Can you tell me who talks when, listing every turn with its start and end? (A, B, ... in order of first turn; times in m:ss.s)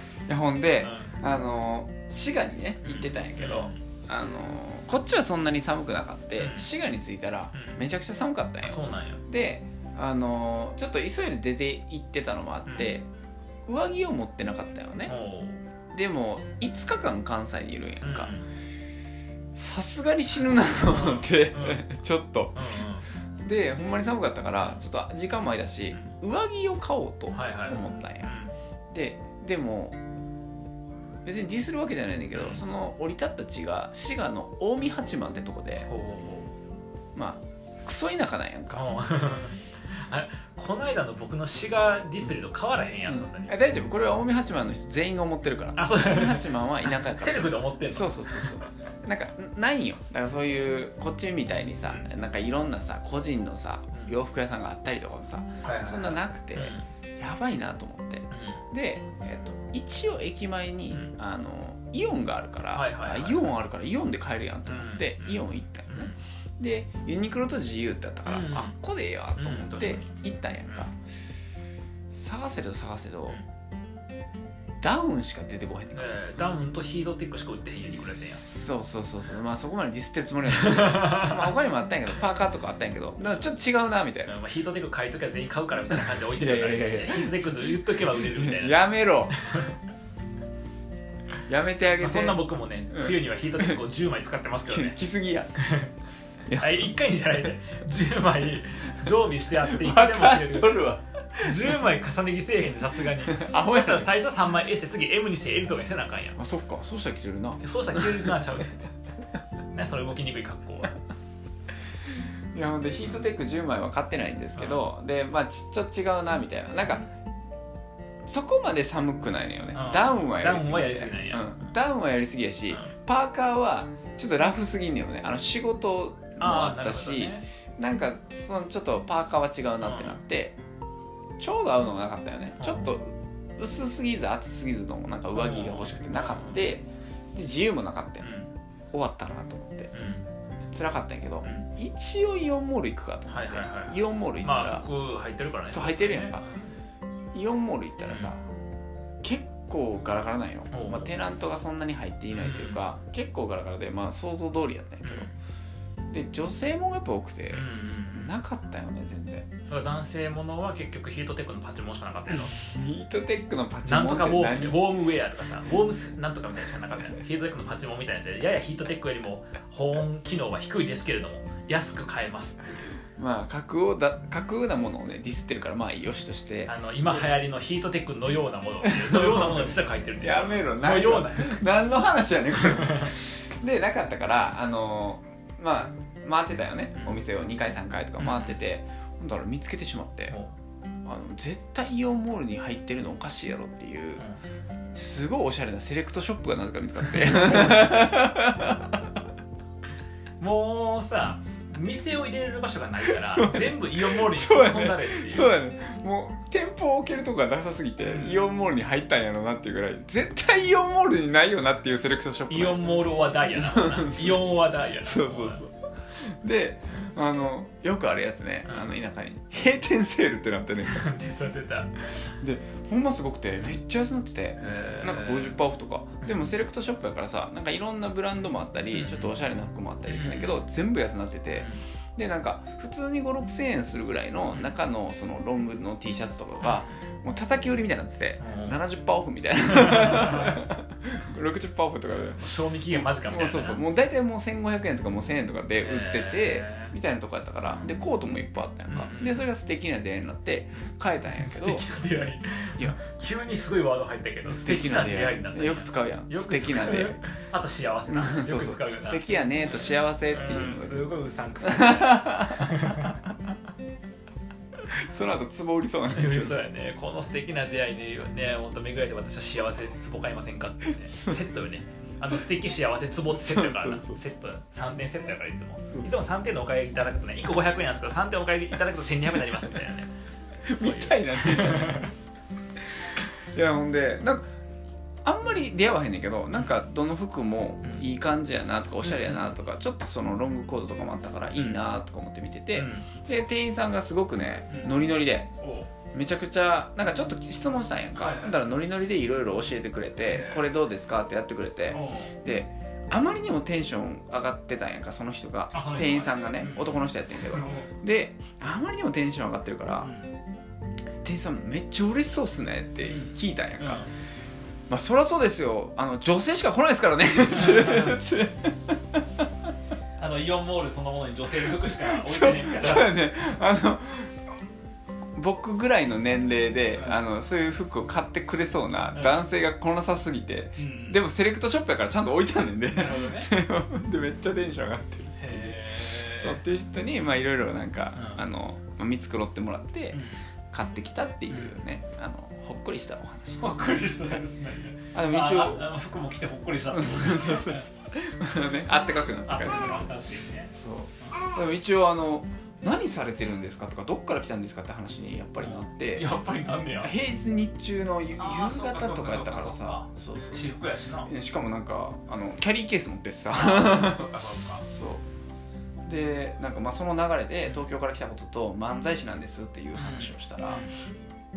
0:00.3-0:13.1 A
0:00.8-0:01.2 B
0:02.8-0:03.8 B
0:06.4-0:06.7 B
0:07.5-0:07.8 B
0:08.6-0:09.2 B
0:13.6-0:15.1 A
0:15.1-0:15.6 B
0:15.9-0:18.3 A
0:18.0-0:18.5 B
0:19.5-0:22.6 A
0:20.8-0:21.9 B
0:22.5-0:23.1 B
0:23.4-0:28.3 A
0:27.3-0:28.5 B
0:28.9-0:30.0 A
0:31.2-0:35.9 A
0:32.3-0:32.6 B
0:35.9-0:36.5 B
0:37.1-0:38.8 A
0:38.7-0:43.5 B
0:43.0-1:10.9 A
0:45.8-0:48.6 B
0:55.6-0:56.8 B
0:58.3-0:58.6 B
1:02.7-1:03.5 B
1:04.6-1:06.2 B
1:08.2-1:08.8 B
1:09.4-1:10.1 B
1:12.1-1:13.4 A
1:14.8-1:16.5 A
1:15.9-1:18.4 B
1:17.8-1:24.3 A
1:20.6-1:21.3 B
1:24.2-1:28.8 B
1:26.3-1:27.4 A
1:28.1-1:29.4 A
1:29.4-1:29.7 B
1:31.5-1:33.8 A
1:32.0-1:35.0 B
1:34.6-1:35.6 A
1:35.6-1:35.9 B
1:36.5-1:36.9 A
1:36.6-1:46.4 B
1:39.6-1:41.8 A
1:43.2-1:44.1 A
1:46.4-1:48.3 A
1:47.6-1:48.9 B
1:49.7-1:51.0 B
1:52.5-1:57.0 A
1:54.6-1:54.9 B
1:58.2-2:10.6 A
1:59.7-2:01.6 B
2:06.4-2:07.4 B
2:09.8-2:10.2 B
2:11.4-2:18.3 A
2:12.6-2:13.0 B
2:15.3-2:16.7 B
2:18.2-2:18.5 B
2:18.9-2:19.9 A
2:19.9-2:20.3 B
2:20.7-2:24.9 A
2:23.3-2:26.7 B
2:25.7-2:26.4 A
2:27.3-2:28.4 A
2:28.1-2:28.3 B
2:29.2-2:35.3 A
2:30.7-2:31.1 B
2:32.3-2:32.8 B
2:35.0-2:35.3 B
2:36.1-2:39.5 A
2:37.5-2:38.3 B
2:39.7-2:42.7 B
2:42.3-2:45.0 A
2:43.8-2:53.0 B
2:53.2-2:57.3 A
2:56.6-3:01.6 B
2:58.8-3:10.4 A
3:02.6-3:03.1 B
3:06.9-3:07.2 B
3:08.2-3:08.6 B
3:11.0-3:14.2 A
3:14.9-3:19.0 A
3:17.1-3:18.0 B
3:20.4-3:25.5 B
3:23.2-3:32.8 A
3:28.0-3:28.5 B
3:32.5-3:35.6 B
3:33.5-3:41.1 A
3:38.7-3:38.9 B
3:40.8-3:42.3 B
3:42.4-4:11.8 A
3:44.6-3:45.6 B
3:46.2-3:46.5 B
3:48.9-3:49.3 B
3:50.0-3:50.6 B
3:51.6-3:51.8 B
3:56.6-3:57.0 B
3:58.4-3:58.8 B
3:59.8-4:00.6 B
4:02.3-4:03.8 B
4:05.8-4:06.9 B
4:07.7-4:07.9 B
4:08.9-4:09.4 B
4:11.3-4:23.2 B
4:14.4-4:17.2 A
4:18.1-4:22.8 A
4:24.9-4:26.6 A
4:26.1-4:40.1 B
4:31.1-4:31.4 A
4:33.3-4:34.2 A
4:35.9-4:36.2 A
4:40.6-4:42.1 A
4:40.7-4:42.1 B
4:43.5-4:44.4 A
4:45.2-4:55.5 A
4:49.0-4:49.5 B
4:51.5-4:51.8 B
4:52.7-4:53.1 B
4:54.7-4:55.0 B
4:55.6-4:55.9 B
4:56.1-5:10.1 A
4:58.2-4:58.6 B
5:00.3-5:00.8 B
5:01.9-5:02.3 B
5:05.7-5:07.9 B
5:10.0-5:10.3 B
5:11.2-5:14.1 A
5:13.0-5:14.1 B
5:14.9-5:19.0 A
5:17.5-5:18.2 B
5:20.2-5:23.1 B
5:21.8-5:24.5 A
5:25.3-5:40.2 A
5:26.9-5:27.2 B
5:29.1-5:29.4 B
5:30.8-5:31.2 B
5:32.9-5:33.5 B
5:35.4-5:36.6 B
5:38.1-5:38.4 B
5:40.1-5:40.4 B
5:40.7-5:44.4 A
5:41.5-5:41.8 B
5:43.6-5:47.9 B
5:45.1-5:45.9 A
5:46.9-5:50.1 A
5:49.4-5:50.7 B
5:50.7-5:56.4 A
5:55.6-5:57.1 B
5:57.0-6:00.7 A
5:58.4-6:01.3 B
6:01.2-6:04.3 A
6:03.5-6:04.8 B
6:04.9-6:05.2 A
6:06.0-6:10.9 A
6:09.9-6:11.0 B